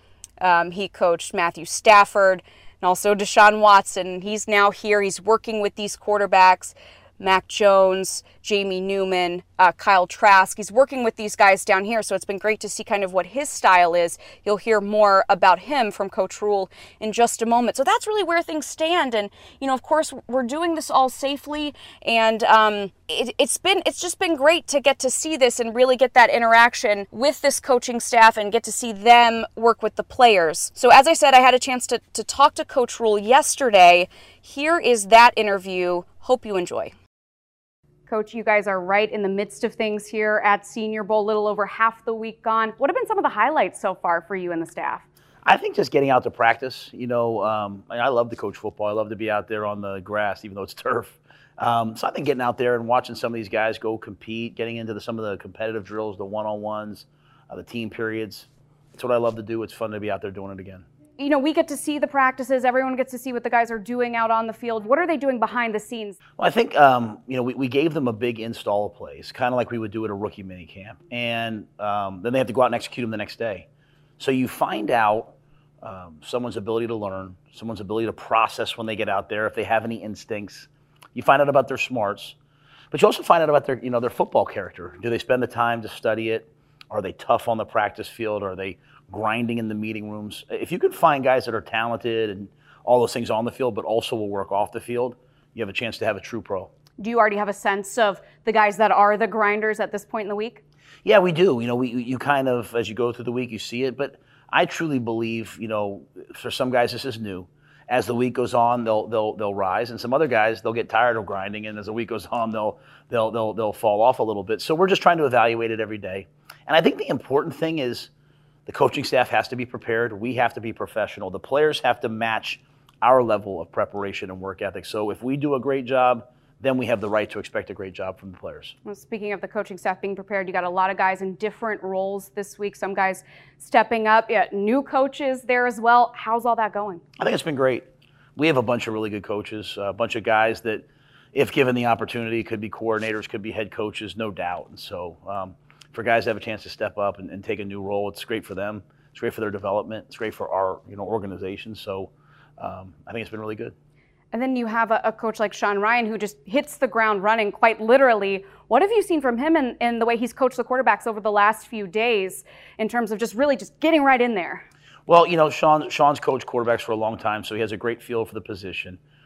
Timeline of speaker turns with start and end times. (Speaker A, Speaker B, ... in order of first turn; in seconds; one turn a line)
Speaker A: 0.4-36.9
Speaker A: 38.1-45.0
Speaker B: 45.4-60.8
Speaker A: 61.2-66.2
Speaker B: 66.4-73.6
Speaker B: 74.2-82.3
Speaker B: 82.9-96.7
Speaker A: 97.0-100.6
Speaker B: 101.0-118.1
Speaker B: 118.7-128.7
Speaker A: 128.8-137.0
Speaker B: 137.2-137.8
Speaker B: 138.3-153.7
Speaker A: 154.3-164.6
Speaker B: 165.1-169.0